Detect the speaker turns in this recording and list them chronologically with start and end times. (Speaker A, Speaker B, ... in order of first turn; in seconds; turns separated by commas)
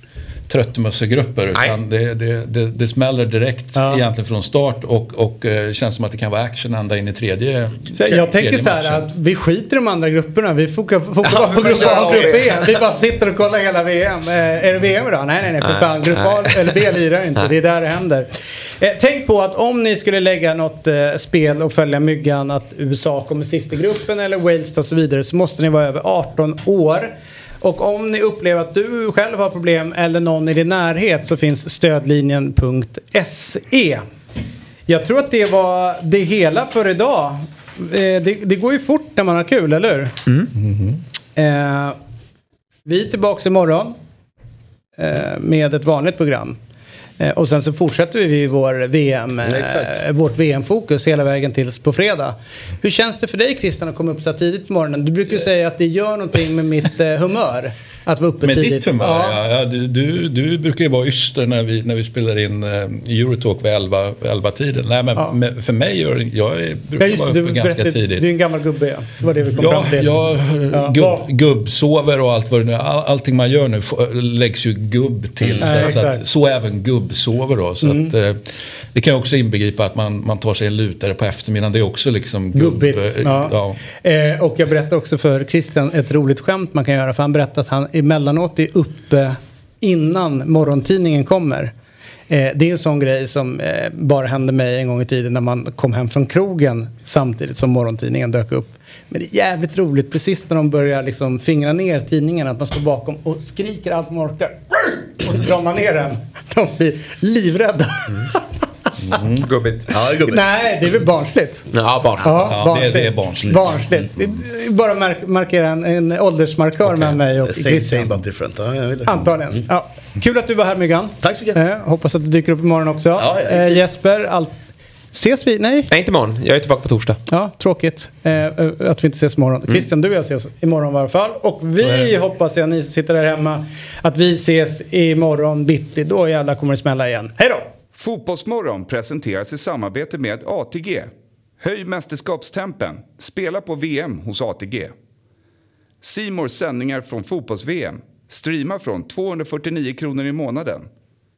Speaker A: 0.5-9.1, Speaker B: 3.8-4.0, Speaker B: 8.0-18.3, Speaker C: 11.3-12.5, Speaker D: 11.8-12.2, Speaker C: 15.6-16.7, Speaker B: 18.8-34.0, Speaker B: 34.9-40.1, Speaker A: 40.6-41.0, Speaker B: 41.4-42.0, Speaker B: 42.9-44.0, Speaker B: 45.0-46.6, Speaker B: 47.2-59.4, Speaker D: 49.4-50.0, Speaker A: 58.4-68.3, Speaker B: 67.0-71.2, Speaker A: 69.6-83.8, Speaker D: 75.4-75.9, Speaker B: 75.6-76.2, Speaker B: 77.8-78.1, Speaker B: 82.5-91.7, Speaker B: 92.3-108.4, Speaker A: 109.0-109.5, Speaker C: 109.4-109.9, Speaker D: 109.9-110.5, Speaker B: 110.3-111.6, Speaker C: 111.7-112.4, Speaker B: 112.2-118.2, Speaker A: 112.4-113.8, Speaker C: 116.9-117.2, Speaker D: 117.4-119.6, Speaker B: 119.1-124.5, Speaker D: 121.2-121.6, Speaker D: 123.2-123.8, Speaker B: 125.1-125.9, Speaker C: 125.9-127.2, Speaker B: 127.3-137.7, Speaker E: 137.9-144.9, Speaker E: 146.0-150.9